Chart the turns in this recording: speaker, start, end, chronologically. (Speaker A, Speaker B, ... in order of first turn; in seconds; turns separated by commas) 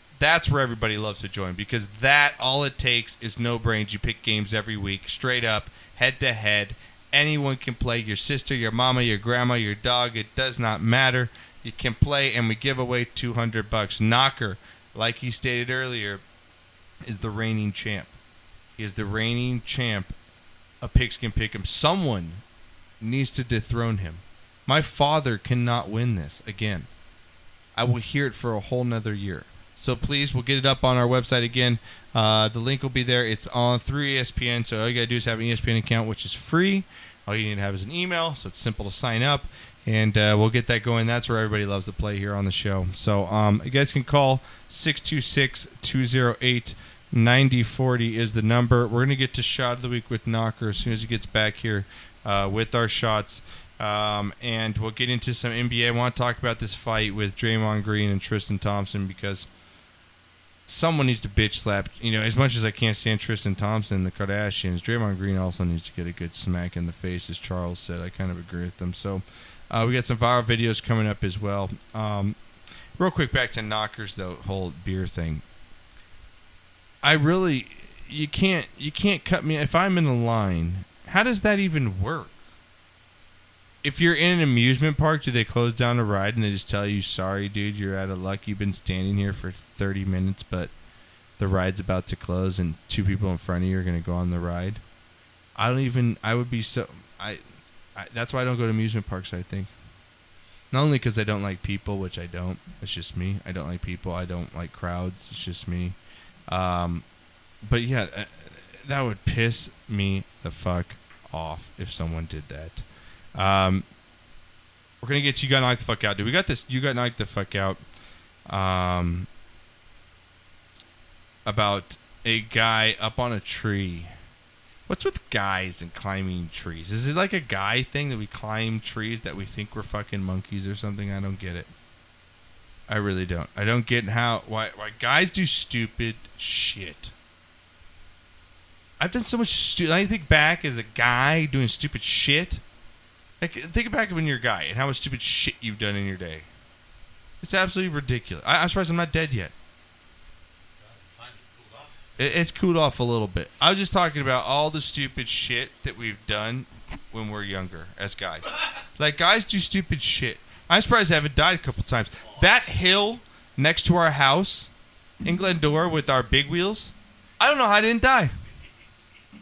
Speaker A: 0.2-16.2, Speaker A: 17.0-18.1, Speaker A: 18.8-20.1, Speaker A: 20.8-22.4, Speaker A: 23.0-26.9, Speaker A: 27.7-59.5, Speaker A: 60.6-72.4, Speaker A: 73.0-75.4, Speaker A: 77.0-82.4, Speaker A: 83.8-90.7, Speaker A: 91.4-94.8, Speaker A: 95.5-97.4, Speaker A: 97.9-99.7, Speaker A: 100.7-106.0, Speaker A: 106.5-107.0, Speaker A: 107.6-112.8, Speaker A: 113.3-113.8, Speaker A: 115.0-117.8, Speaker A: 118.5-119.3, Speaker A: 121.4-124.1, Speaker A: 124.9-131.7, Speaker A: 132.9-137.1, Speaker A: 139.0-142.6, Speaker A: 143.4-146.5, Speaker A: 147.4-149.5, Speaker A: 152.2-164.7, Speaker A: 165.2-168.3